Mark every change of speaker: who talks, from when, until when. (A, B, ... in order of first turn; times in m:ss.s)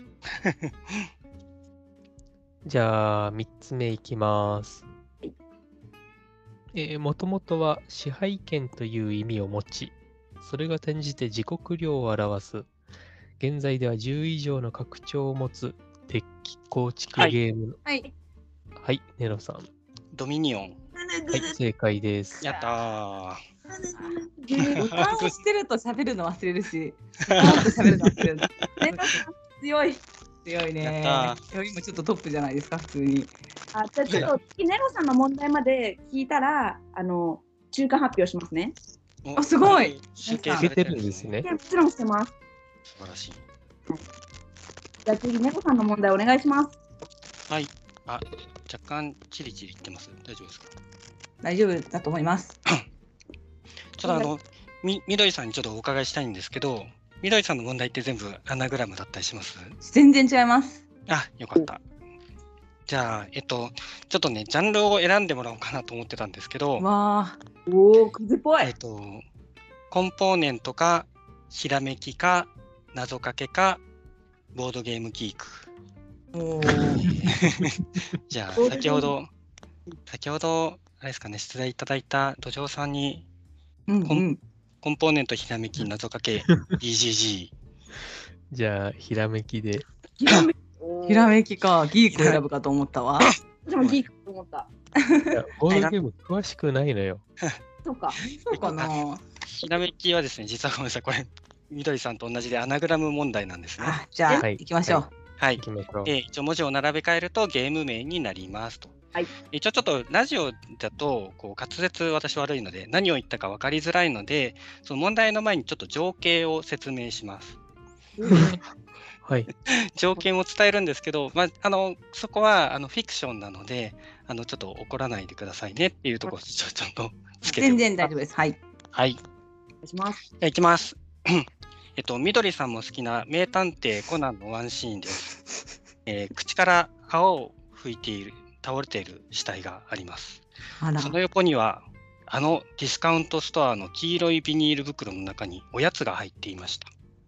0:02.6-0:04.8 A
0:06.7-0:12.7 A
0:13.4-0:17.8 A
0:18.8-0:19.7 A
0:20.1-0:20.8 B
0:21.0-0:21.6 C
0:21.3-0:22.4 A
0:22.4-0:22.7 D
0:22.4-0:23.4 B
0:23.7-0:25.0 C
0:24.6-0:25.3 B
0:24.8-0:29.1 D
0:27.3-0:28.1 B
0:28.8-0:30.0 C
0:30.4-0:33.3 D
0:30.8-0:31.4 B
0:33.7-0:38.8 C
0:39.2-0:41.3 B
0:39.4-0:40.7 D
0:40.6-0:41.5 A
0:41.4-0:42.3 C
0:42.9-0:43.4 B
0:45.1-0:46.8 C
0:47.5-0:50.7 B
0:51.4-0:52.6 D
0:54.0-0:59.8 B
0:59.8-1:00.8 D
1:01.1-1:01.8 B
1:02.9-1:06.8 B
1:06.8-1:07.4 D
1:07.7-1:08.7 C
1:08.6-1:09.2 B
1:09.9-1:13.8 B
1:14.5-1:15.7 B
1:16.3-1:17.1 D
1:17.0-1:17.8 B
1:17.3-1:17.8 A
1:18.3-1:19.3 B
1:18.6-1:19.1 C
1:20.1-1:23.3 B
1:23.9-1:24.4 D
1:24.8-1:27.5 B
1:28.5-1:29.9 A
1:30.2-1:31.3 C
1:31.1-1:33.4 D
1:33.7-1:34.7 C
1:35.0-1:35.4 D
1:35.3-1:37.2 A
1:35.7-1:36.0 B
1:37.8-1:38.2 C
1:38.3-1:39.2 D
1:38.5-1:38.9 B
1:39.5-1:44.0 B
1:43.8-1:45.1 D
1:44.4-1:45.0 A
1:45.4-1:49.0 B
1:45.6-1:46.1 A
1:49.5-1:57.6 B
1:58.2-1:58.6 C
1:58.3-1:58.6 A
1:59.7-2:08.1 B
2:07.4-2:08.6 D
2:08.9-2:09.2 B
2:09.8-2:10.2 C
2:10.4-2:15.4 B
2:16.1-2:20.4 B
2:20.8-2:21.2 D
2:21.0-2:26.9 B